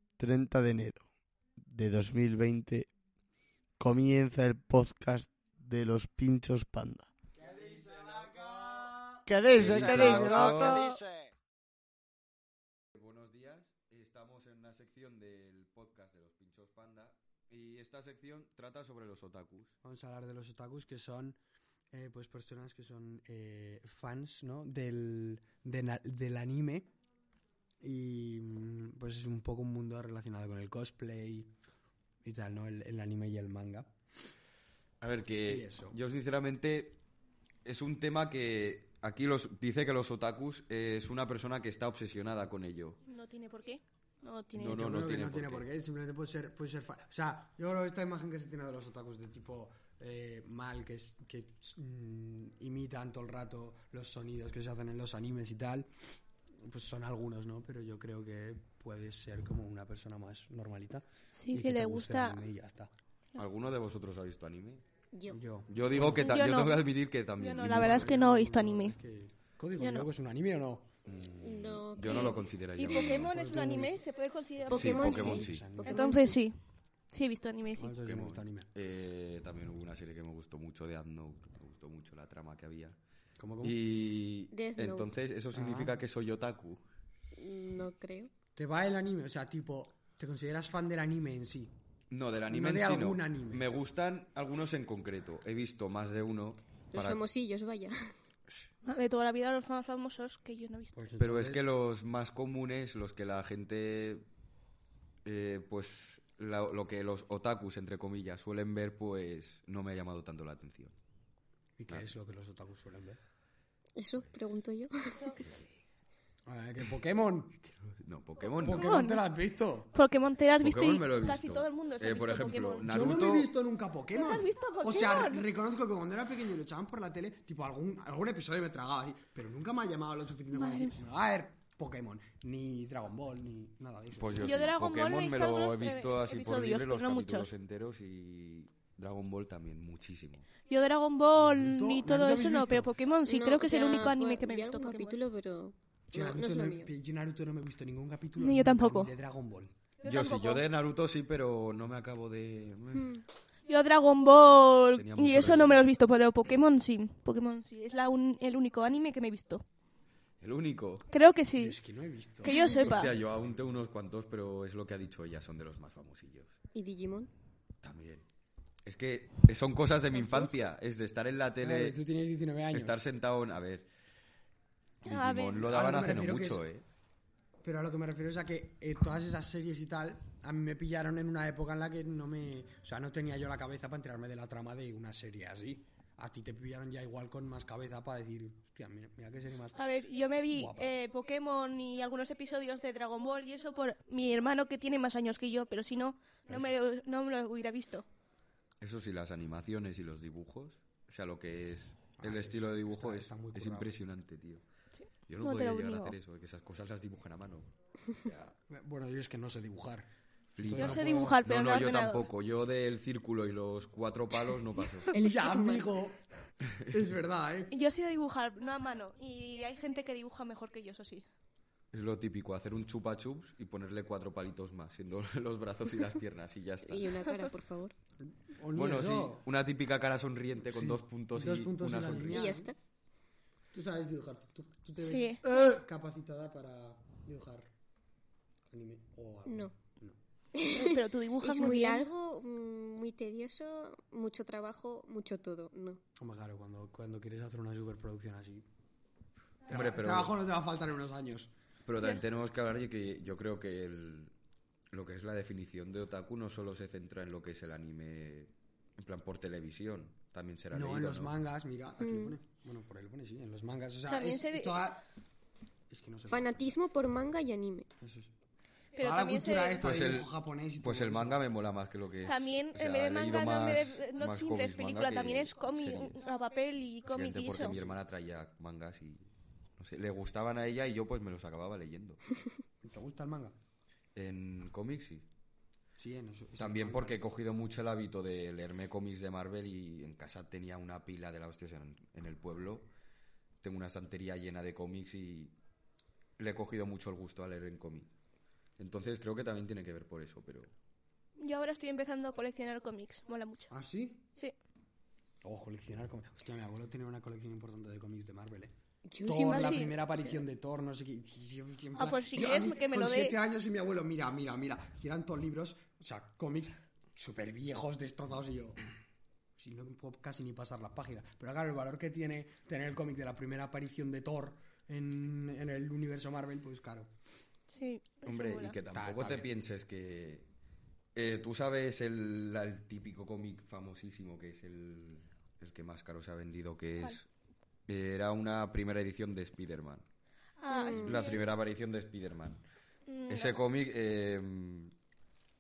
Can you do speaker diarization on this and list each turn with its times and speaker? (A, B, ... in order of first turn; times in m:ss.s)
0:00.2-0:01.1 A
0:01.7-0:02.9 A
0:03.8-0:07.1 A
0:07.5-0:08.3 B
0:08.1-0:08.5 C
0:09.3-0:11.0 A
0:09.5-0:11.0 C
0:13.0-0:19.8 C
0:19.8-0:21.4 B
0:21.9-0:26.9 B
0:27.8-0:31.5 B
0:32.2-0:33.9 B
0:35.0-0:37.0 C
0:35.5-0:36.0 B
0:37.6-0:43.0 C
0:43.0-0:44.8 D
0:44.6-0:45.6 C
0:44.6-1:02.9 B
1:01.4-1:02.4 D
1:03.4-1:04.8 C
1:05.1-1:05.4 E
1:05.3-1:06.3 B
1:05.7-1:08.2 C
1:06.0-1:06.8 D
1:07.4-1:09.0 D
1:07.6-1:10.9 B
1:09.8-1:10.1 D
1:11.1-1:13.3 C
1:11.4-1:12.4 E
1:12.1-1:16.6 D
1:13.0-1:14.0 B
1:14.6-1:16.2 B
1:14.7-1:16.4 E
1:14.7-1:15.6 C
1:17.1-1:18.0 D
1:17.8-1:18.7 B
1:18.0-1:23.0 C
1:23.4-1:23.8 B
1:23.6-1:26.8 C
1:24.5-1:25.1 E
1:25.5-1:26.0 B
1:27.4-1:28.3 E
1:28.6-1:31.7 B
1:32.1-1:37.2 C
1:32.5-1:33.7 B
1:36.9-1:38.1 E
1:38.8-1:41.0 D
1:40.9-1:41.6 B
1:41.2-1:44.2 C
1:45.2-1:50.9 C
1:51.8-1:53.2 B
1:54.0-1:55.4 E
1:56.5-1:57.6 B
1:57.9-1:59.0 C
1:58.5-1:59.2 D
1:58.6-1:59.9 B
1:59.9-2:02.9 D
2:00.6-2:03.5 C
2:02.9-2:14.7 B
2:04.1-2:05.5 D
2:10.5-2:10.9 D
2:14.2-2:20.5 C
2:14.4-2:17.5 D
2:20.7-2:25.2 D
2:21.4-2:22.9 B
2:23.3-2:26.9 E
2:26.1-2:29.7 B
2:28.4-2:29.1 D
2:30.0-2:30.6 D
2:30.0-2:33.2 C
2:32.9-2:33.2 E
2:33.7-2:39.6 D
2:34.9-2:35.9 C
2:40.4-2:41.1 C
2:41.1-2:41.8 D
2:41.6-2:42.7 B
2:42.4-2:43.1 D
2:42.7-2:46.6 C
2:46.7-2:47.3 E
2:47.8-2:48.2 C
2:48.8-2:52.0 C
2:51.6-2:53.0 B
2:52.7-2:53.9 C
2:55.0-2:56.8 C
2:55.0-2:55.6 D
2:55.6-2:56.6 B
2:57.6-3:09.8 B
3:09.8-3:18.1 D
3:10.5-3:10.9 B
3:18.8-3:24.6 C
3:22.2-3:23.9 B
3:25.0-3:26.2 D
3:25.3-3:27.7 C
3:28.2-3:30.1 B
3:30.5-3:35.1 C
3:30.6-3:31.4 B
3:30.8-3:32.3 D
3:35.1-3:36.2 B
3:35.4-3:35.8 E
3:36.8-3:37.7 B
3:37.7-3:41.3 D
3:41.9-3:47.4 C
3:46.9-3:47.9 E
3:48.3-3:49.4 B
3:48.7-3:52.5 C
3:50.7-3:52.7 B
3:52.3-3:52.8 E
3:53.7-3:57.7 B
3:55.0-3:55.4 D
3:58.7-4:00.2 B
3:59.5-3:59.7 E
4:00.5-4:06.0 E
4:00.7-4:02.0 D
4:06.2-4:08.6 B
4:09.7-4:10.4 C
4:09.7-4:11.5 B
4:11.8-4:14.3 C
4:14.9-4:21.4 C
4:20.7-4:25.0 B
4:22.0-4:22.4 E
4:24.1-4:24.9 D
4:25.9-4:26.5 B
4:26.3-4:27.9 E
4:28.0-4:28.3 B
4:29.0-4:29.8 D
4:29.0-4:31.4 B
4:29.8-4:36.2 C
4:32.2-4:37.8 D
4:37.1-4:42.2 C
4:42.8-4:43.6 B
4:44.2-4:45.3 C
4:46.0-4:47.2 B
4:46.6-4:52.9 C
4:53.6-4:55.6 C
4:56.4-4:58.1 C
4:58.8-5:00.7 C
5:01.4-5:03.7 D
5:03.7-5:04.2 B
5:05.4-5:08.7 B
5:09.1-5:10.0 E
5:09.2-5:18.8 B
5:09.4-5:09.9 D
5:12.0-5:13.4 D
5:19.6-5:27.1 B
5:27.7-5:28.8 D
5:28.2-5:30.5 C
5:28.9-5:29.5 B
5:31.2-5:37.3 C
5:37.9-5:40.0 C
5:40.6-5:41.4 D
5:40.7-5:41.4 E
5:41.0-5:42.6 C
5:43.1-5:43.6 D
5:43.3-5:44.9 C